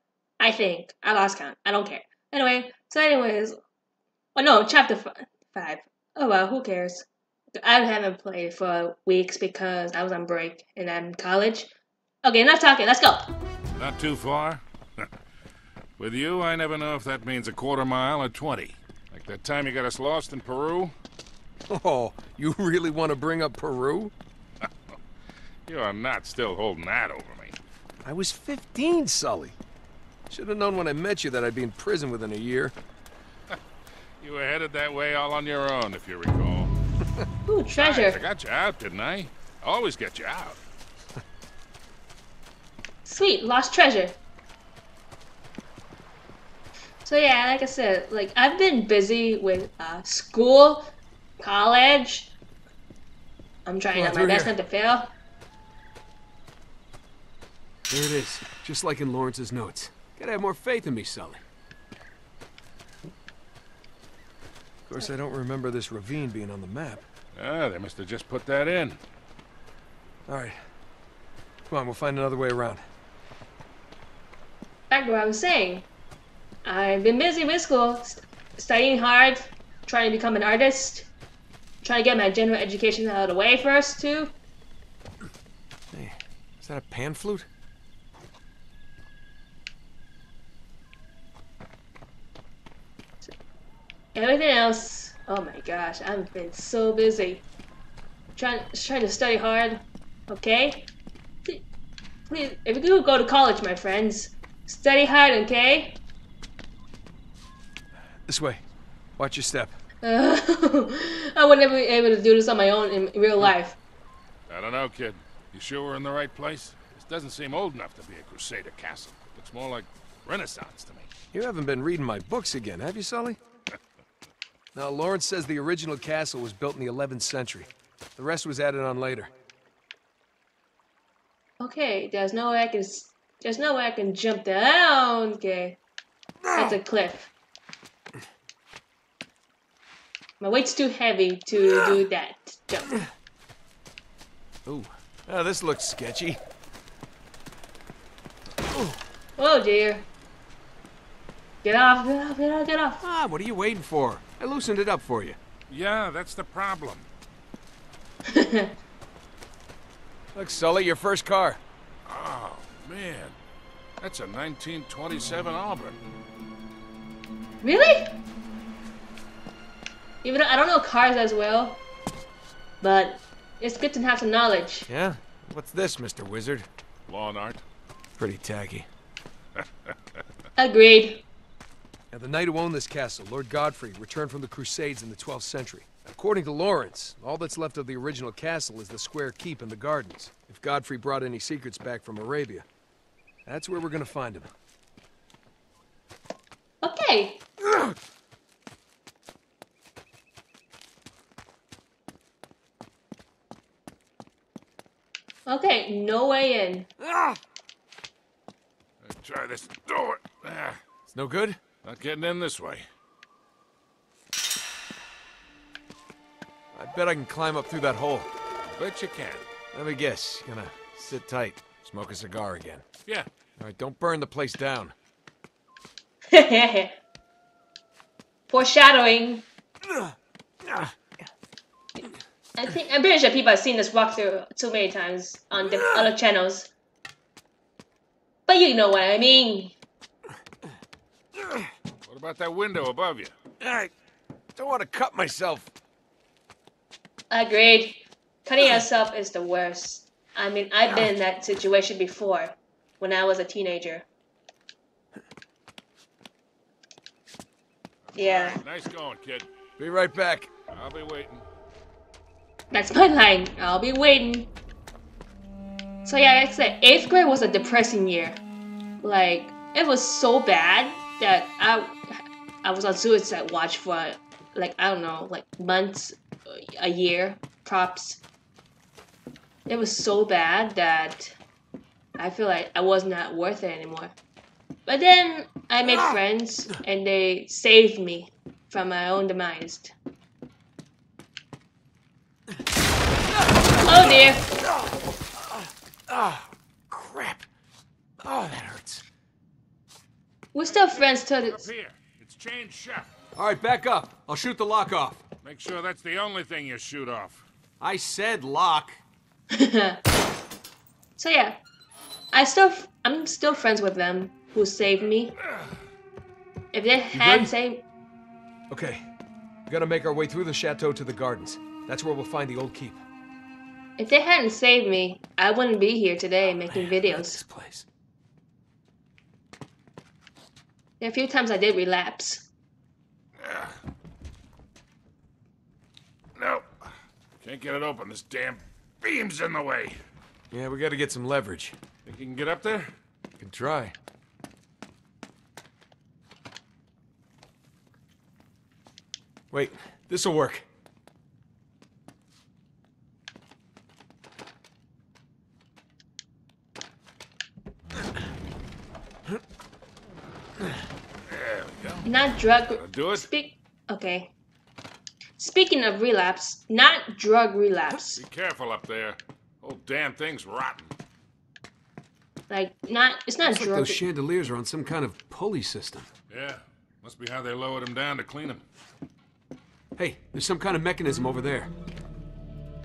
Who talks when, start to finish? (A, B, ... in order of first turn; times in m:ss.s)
0:00.4-0:03.6 A
0:04.3-0:11.7 A
0:12.2-0:13.3 A
0:13.8-0:15.1 B
0:16.0-0:20.9 B
0:21.7-0:24.1 C
0:24.6-0:25.0 B
0:25.7-0:27.6 B
0:28.0-0:29.6 C
0:30.3-0:32.7 C
0:34.2-0:36.7 B
0:37.5-0:38.2 A
0:37.8-0:40.6 B
0:43.0-0:44.2 A
0:47.0-0:50.9 A
0:51.4-0:52.3 A
0:53.6-0:55.1 A
0:53.9-0:54.5 C
0:57.9-1:01.4 C
1:04.9-1:07.0 C
1:07.3-1:09.0 B
1:10.3-1:10.6 C
1:11.7-1:12.8 C
1:14.9-1:15.9 A
1:16.6-1:21.1 A
1:21.8-1:24.3 A
1:25.9-1:27.5 C
1:34.1-1:37.4 A
1:38.4-1:40.9 A
1:42.3-1:46.0 A
1:48.2-1:48.6 C
1:49.2-1:49.8 C
1:50.0-1:53.8 A
1:54.5-2:01.1 B
2:01.3-2:03.4 C
2:04.7-2:09.3 C
2:11.6-2:15.8 A
2:16.5-2:17.3 A
2:20.4-2:23.0 A
2:24.6-2:26.4 C
2:29.4-2:30.0 A
2:31.6-2:33.0 A
2:33.0-2:35.4 C
2:35.7-2:37.1 B
2:38.3-2:38.8 A
2:40.3-2:41.6 C
2:42.0-2:43.4 B
2:44.0-2:46.0 B
2:47.6-2:48.1 A
2:50.2-2:51.8 A
2:52.8-2:54.9 A
2:54.9-2:56.7 C
2:57.1-2:57.6 B
2:58.2-2:58.9 C
3:00.6-3:01.2 A
3:02.1-3:12.7 C
3:13.4-3:14.5 C
3:16.8-3:17.4 A
3:25.5-3:26.9 A
3:27.0-3:27.4 C
3:29.0-3:30.8 B
3:31.1-3:31.6 C
3:31.8-3:32.8 B
3:36.7-3:38.3 C
3:38.7-3:39.4 B
3:39.7-3:42.8 C
3:43.6-3:44.9 C
3:46.3-3:47.0 A
3:48.5-3:49.4 A
3:50.6-3:50.9 C
3:52.5-3:56.7 A
3:58.5-3:59.7 A
4:02.0-4:03.3 B
4:03.6-4:03.9 C
4:04.6-4:05.7 C
4:07.3-4:14.0 A
4:18.1-4:19.5 B
4:18.2-4:18.6 A
4:19.8-4:20.5 C
4:20.7-4:21.4 B
4:22.7-4:24.5 A
4:26.0-4:28.4 A
4:29.0-4:38.2 A
4:39.6-4:41.3 A
4:42.2-4:44.1 A
4:44.9-4:49.9 A
4:53.8-4:54.4 A
4:55.4-4:57.5 C
4:58.2-4:59.0 C
5:00.5-5:01.7 A
5:00.6-5:03.1 B
5:03.4-5:05.2 C
5:05.4-5:07.4 B
5:07.8-5:09.0 C
5:09.5-5:10.0 A
5:11.2-5:11.6 A
5:12.3-5:15.3 A
5:16.7-5:17.8 A
5:17.1-5:17.5 C
5:18.7-5:19.0 C
5:19.7-5:23.0 C
5:24.0-5:27.4 A
5:26.7-5:27.9 C
5:31.0-5:32.5 A
5:33.4-5:33.8 B
5:36.4-5:36.9 B
5:37.4-5:40.0 B
5:40.5-5:41.8 C
5:42.0-5:42.9 B
5:43.4-5:44.0 C
5:49.5-5:50.6 C
6:01.3-6:02.1 B
6:02.0-6:04.3 A
6:02.7-6:03.3 B
6:05.4-6:08.2 A
6:08.2-6:10.9 B
6:12.5-6:14.0 A
6:13.4-6:16.1 C
6:16.3-6:18.6 B
6:20.0-6:21.7 C